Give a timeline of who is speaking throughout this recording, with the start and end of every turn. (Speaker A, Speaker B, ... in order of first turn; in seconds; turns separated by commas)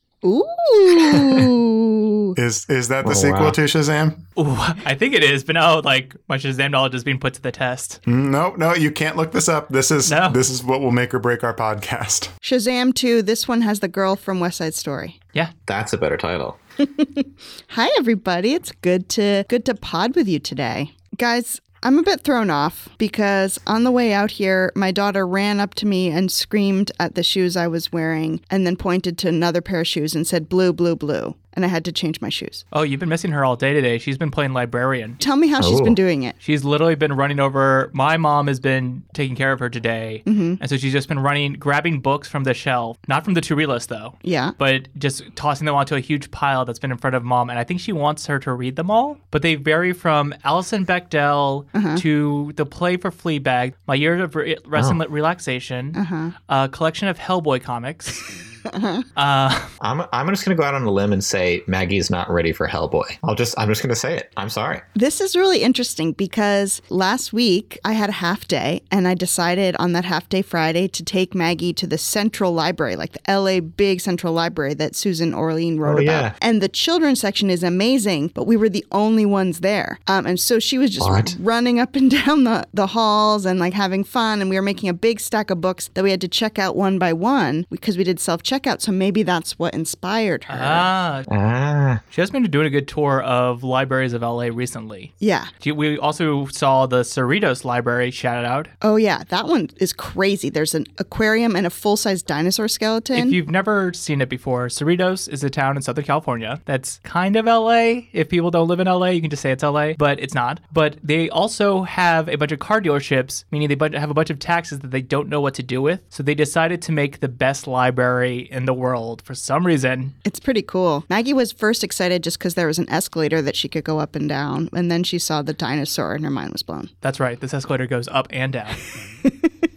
Speaker A: 0.2-2.4, Speaker B: 1.0-1.5, Speaker C: 2.4-4.2, Speaker B: 3.0-3.6, Speaker D: 4.4-8.0, Speaker C: 8.1-12.3, Speaker D: 10.1-10.4, Speaker A: 12.4-15.2, Speaker B: 15.7-16.6, Speaker A: 16.8-32.6, Speaker D: 32.7-35.2, Speaker A: 35.2-36.4, Speaker B: 35.6-36.0, Speaker D: 36.4-58.3, Speaker A: 40.3-40.6, Speaker A: 44.2-44.5, Speaker A: 51.7-52.0, Speaker A: 56.0-56.3, Speaker A: 58.7-59.0, Speaker D: 59.2-59.7, Speaker B: 59.8-64.8, Speaker A: 65.0-90.9, Speaker B: 75.8-76.3, Speaker B: 81.0-81.4, Speaker D: 90.5-91.3, Speaker B: 91.3-92.0, Speaker D: 92.1-98.7, Speaker A: 95.2-95.5, Speaker A: 98.8-103.4, Speaker D: 103.2-120.1, Speaker A: 120.2-126.9, Speaker D: 127.0-128.8, Speaker A: 129.2-129.5